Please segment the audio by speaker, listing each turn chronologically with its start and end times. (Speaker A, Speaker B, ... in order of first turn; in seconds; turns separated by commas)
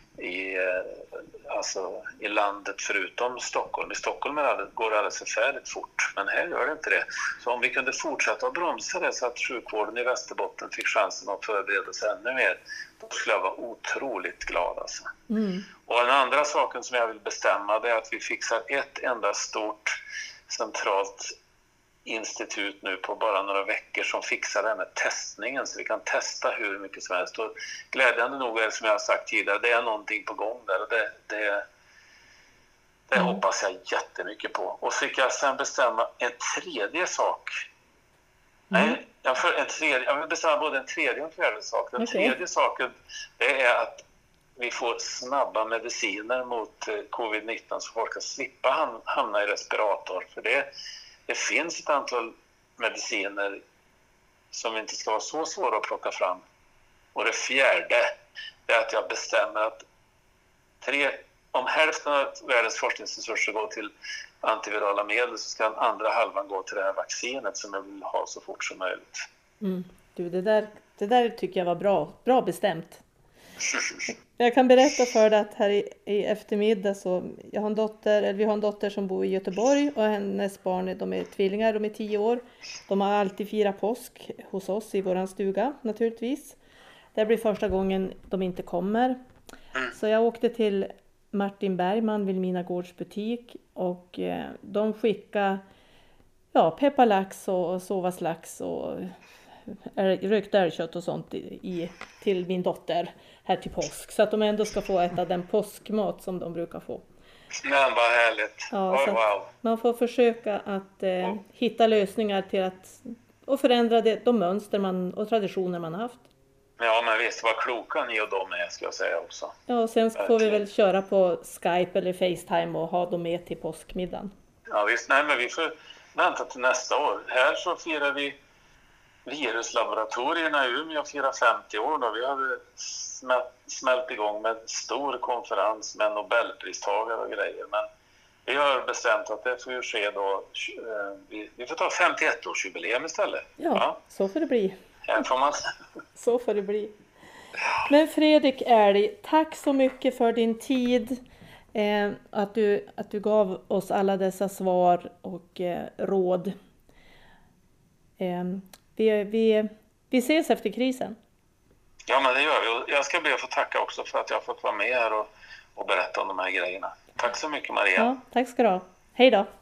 Speaker A: 0.2-15.1, Speaker B: 15.3-15.7, Speaker A: 15.9-21.3, Speaker A: 22.1-31.6, Speaker A: 33.1-37.6, Speaker B: 38.7-39.0, Speaker A: 38.7-44.0, Speaker B: 42.0-42.4, Speaker A: 44.6-50.7, Speaker A: 51.3-53.6, Speaker A: 54.5-56.5, Speaker A: 57.1-58.1, Speaker A: 58.7-59.9, Speaker A: 60.8-69.3, Speaker B: 69.6-73.0, Speaker A: 73.7-74.0, Speaker B: 74.1-86.6, Speaker B: 87.2-89.2, Speaker B: 89.9-95.6, Speaker B: 96.5-99.2, Speaker B: 99.7-107.0, Speaker A: 107.6-109.5, Speaker B: 108.7-116.2, Speaker A: 116.8-119.6, Speaker B: 119.7-124.3, Speaker A: 120.2-120.6, Speaker A: 124.7-128.4, Speaker A: 129.2-137.9, Speaker A: 138.4-144.0, Speaker B: 143.6-144.8, Speaker A: 145.1-145.6, Speaker B: 146.2-146.9, Speaker B: 147.8-151.2, Speaker B: 151.7-156.6, Speaker B: 158.2-161.2, Speaker A: 162.1-168.1, Speaker B: 168.0-169.5